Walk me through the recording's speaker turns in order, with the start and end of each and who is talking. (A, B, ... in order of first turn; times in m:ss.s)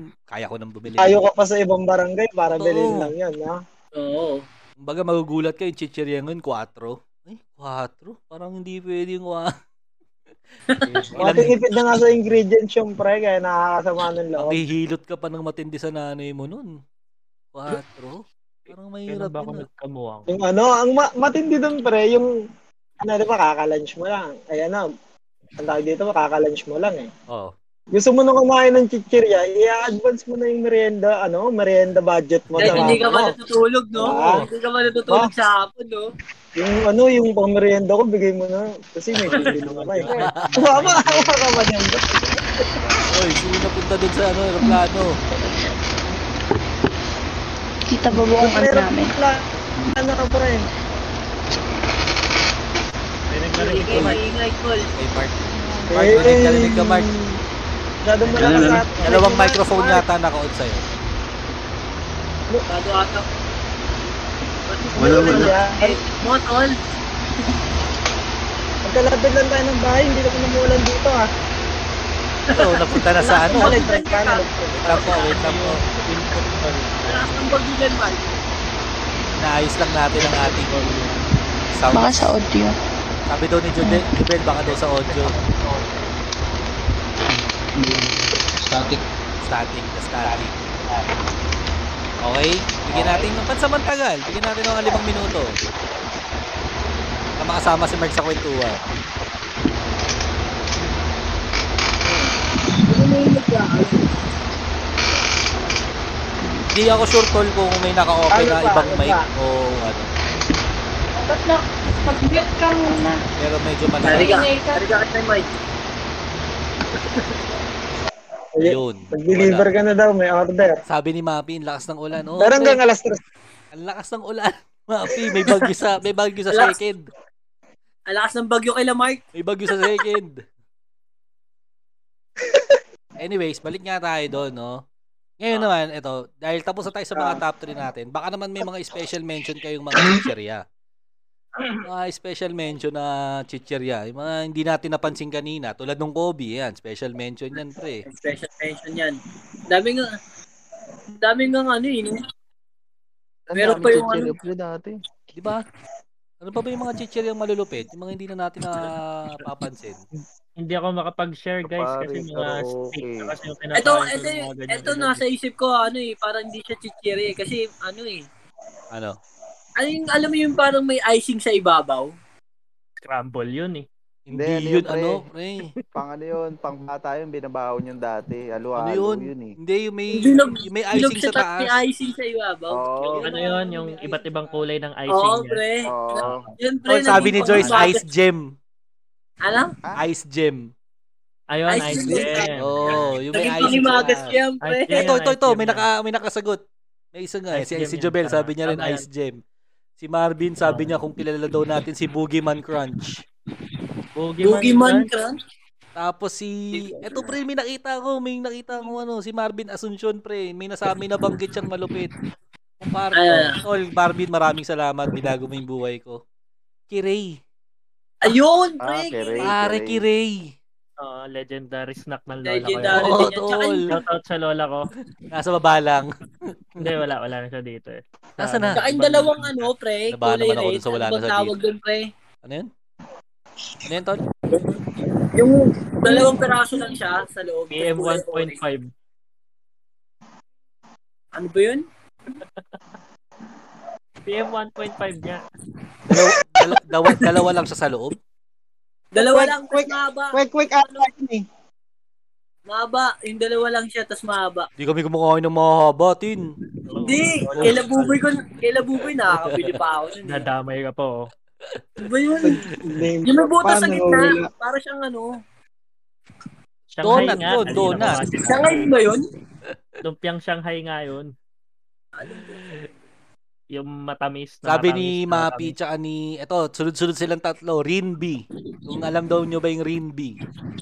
0:00.3-0:01.2 A
0:01.0-0:03.6 B
0:02.6-0:03.1 A
0:03.9-0:04.4 C
0:04.8-0:09.5 A
0:11.2-0:14.6 B
0:11.2-0:11.5 A
0:14.4-0:16.8 A
0:17.5-0:19.7 A
0:19.1-0:20.3 D
0:20.3-0:22.3 B
0:23.0-0:24.8 B
0:25.6-0:27.1 B
0:27.9-0:33.3 B
0:32.6-0:36.0 C
0:32.6-0:33.0 A
0:34.0-0:34.4 B
0:34.0-0:34.5 A
0:36.6-0:42.8 B
0:39.2-0:39.6 C
0:39.3-0:41.6 D
0:40.2-0:40.8 A
0:43.1-0:45.2 A
0:47.9-0:49.2 E
0:48.1-0:50.6 B
0:53.3-0:54.2 D
0:53.6-0:54.9 C
0:55.0-0:57.1 A
0:55.9-0:57.4 B
0:58.0-1:00.0 B
0:58.2-0:59.1 D
0:58.4-0:58.8 F
0:59.0-1:00.8 A
1:02.7-1:03.3 C
1:04.6-1:06.8 C
1:05.0-1:05.6 F
1:05.0-1:06.0 B
1:08.8-1:11.3 B
1:12.5-1:15.4 C
1:12.5-1:13.8 A
1:13.5-1:14.8 B
1:14.8-1:15.8 A
1:15.3-1:17.5 D
1:17.0-1:18.4 C
1:19.4-1:20.7 A
1:20.1-1:21.2 D
1:21.7-1:22.3 A
1:21.9-1:22.7 E
1:23.3-1:25.3 A
1:27.3-1:29.0 F
1:29.4-1:30.6 A
1:30.2-1:31.1 F
1:32.2-1:35.5 A
1:32.9-1:33.3 F
1:37.4-1:38.8 A
1:42.7-1:44.1 C
1:46.7-1:50.1 A
1:48.3-1:49.2 B
1:51.2-1:53.2 E
1:53.4-1:54.4 A
1:54.0-1:55.5 C
1:54.1-1:54.8 E
1:58.6-2:00.8 B
1:58.6-1:59.7 A
2:00.9-2:02.8 A
2:02.4-2:03.2 B
2:03.7-2:07.1 A
2:05.2-2:05.6 B
2:06.5-2:06.8 C
2:08.1-2:09.2 C
2:09.3-2:10.4 A
2:12.4-2:12.8 B
2:13.2-2:14.8 A
2:15.4-2:20.6 A
2:17.1-2:17.4 B
2:21.8-2:28.0 A
2:28.0-2:30.1 C
2:31.2-2:32.2 C
2:33.5-2:35.0 G
2:33.6-2:34.3 C
2:35.3-2:35.6 A
2:36.4-2:40.0 A
2:40.6-2:45.2 D
2:41.6-2:43.2 G
2:43.7-2:48.2 C
2:48.9-2:49.2 A
2:49.8-2:52.1 C
2:53.0-2:53.8 D
2:54.3-2:55.7 A
2:54.4-2:55.2 G
2:55.9-2:59.5 G
2:58.8-3:01.8 A
3:00.1-3:03.2 C
3:02.7-3:03.2 G
3:03.0-3:04.7 A
3:03.2-3:05.6 D
3:05.1-3:08.0 C
3:05.9-3:06.4 G
3:06.2-3:06.5 D
3:06.9-3:08.5 A
3:07.1-3:07.7 D
3:09.4-3:09.7 C
3:10.0-3:10.7 A
3:11.5-3:13.8 D
3:11.7-3:15.1 C
3:12.6-3:14.3 A
3:14.6-3:15.8 D
3:14.9-3:16.6 A
3:17.1-3:19.4 A
3:17.5-3:19.0 D
3:20.0-3:23.2 A
3:20.7-3:20.9 D
3:24.2-3:25.1 D
3:24.4-3:25.4 C
3:26.0-3:32.1 A
3:26.8-3:27.3 C
3:32.8-3:36.2 A
3:33.1-3:33.6 C
3:36.9-3:37.4 A
3:38.2-3:39.5 C
3:38.8-3:40.0 G
3:39.4-3:40.5 A
3:41.0-3:43.3 D
3:42.4-3:44.0 C
3:42.9-3:43.8 A
3:43.9-3:44.9 D
3:45.3-3:46.1 A
3:46.8-3:49.6 D
3:48.4-3:48.8 A
3:48.7-3:52.1 C
3:50.1-3:51.6 A
3:52.4-3:52.7 A
3:53.8-3:54.2 A
3:55.3-3:58.6 C
3:57.7-3:58.9 D
4:01.3-4:01.9 C
4:04.2-4:05.4 D
4:06.1-4:08.2 A
4:09.1-4:10.4 C
4:09.2-4:11.4 B
4:12.7-4:14.7 C
4:14.8-4:16.5 A
4:16.9-4:18.2 D
4:17.0-4:20.5 C
4:17.6-4:17.8 A
4:19.3-4:19.7 A
4:20.2-4:21.3 D
4:22.0-4:22.6 C
4:22.4-4:24.5 B
4:22.7-4:23.0 A
4:23.2-4:25.3 C
4:26.9-4:28.9 D
4:27.0-4:28.2 A
4:28.4-4:29.2 C
4:30.0-4:31.3 D
4:32.2-4:32.8 C
4:33.7-4:35.7 D
4:34.6-4:40.4 A